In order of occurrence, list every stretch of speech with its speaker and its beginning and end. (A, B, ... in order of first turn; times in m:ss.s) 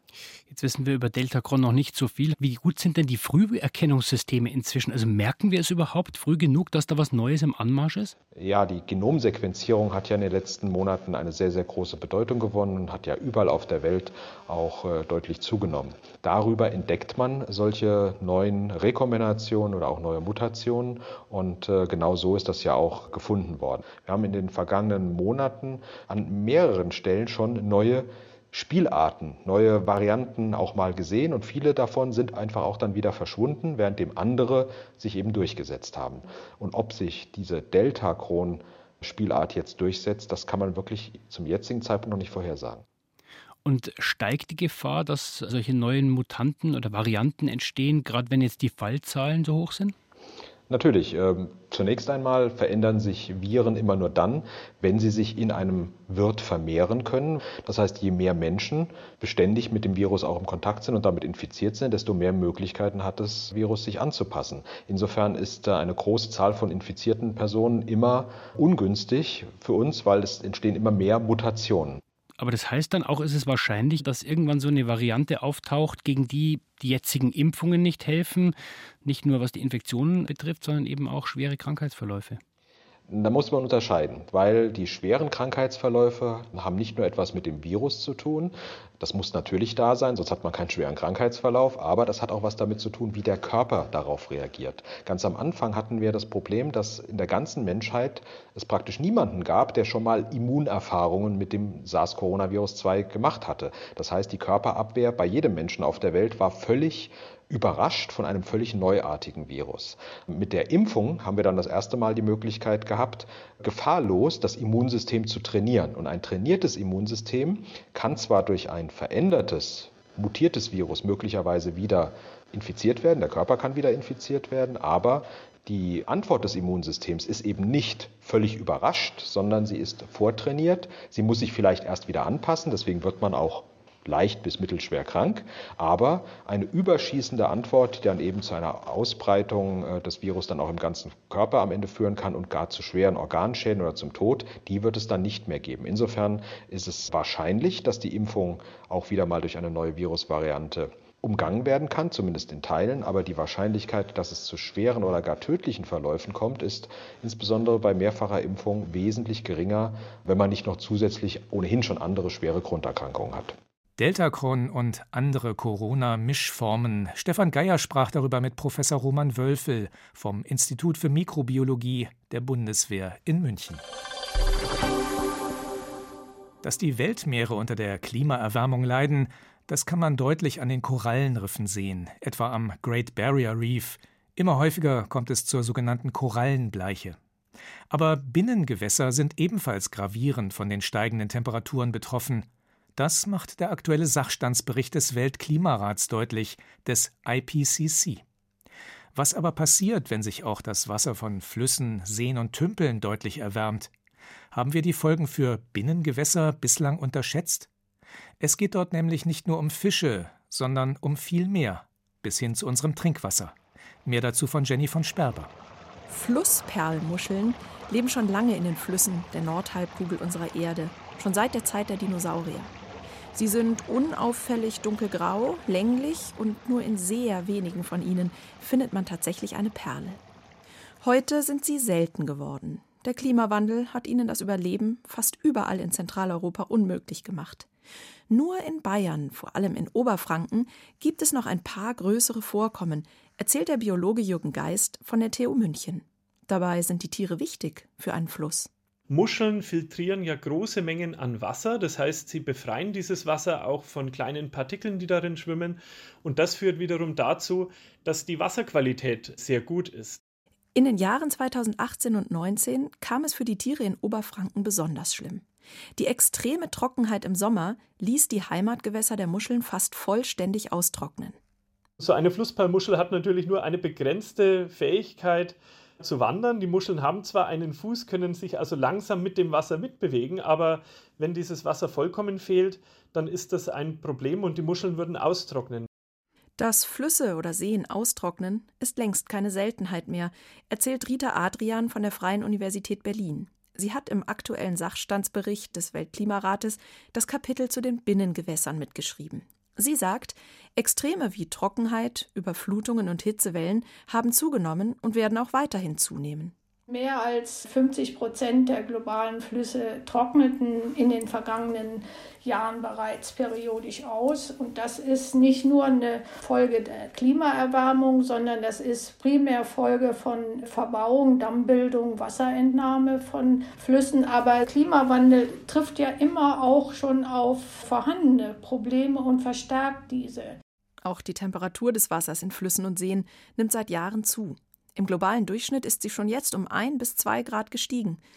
0:00.5-0:08.1 A
0:08.4-0:42.8 B
0:43.6-0:49.9 A
0:50.7-1:12.0 B
1:12.4-1:22.4 A
1:23.1-2:43.5 B
2:44.0-2:53.8 C
2:56.6-3:07.2 C
3:07.9-3:18.2 C
3:19.1-3:23.9 C
3:24.5-3:27.7 C
3:28.4-3:35.5 C
3:36.1-3:42.7 D
3:43.3-3:50.2 D
3:51.0-3:57.7 D
3:58.3-4:08.7 D
4:09.1-4:20.2 E
4:20.7-4:25.4 D
4:26.0-4:31.4 D
4:32.0-4:45.9 E
4:46.6-5:06.5 D
5:06.9-5:30.6 F
5:31.0-5:38.2 D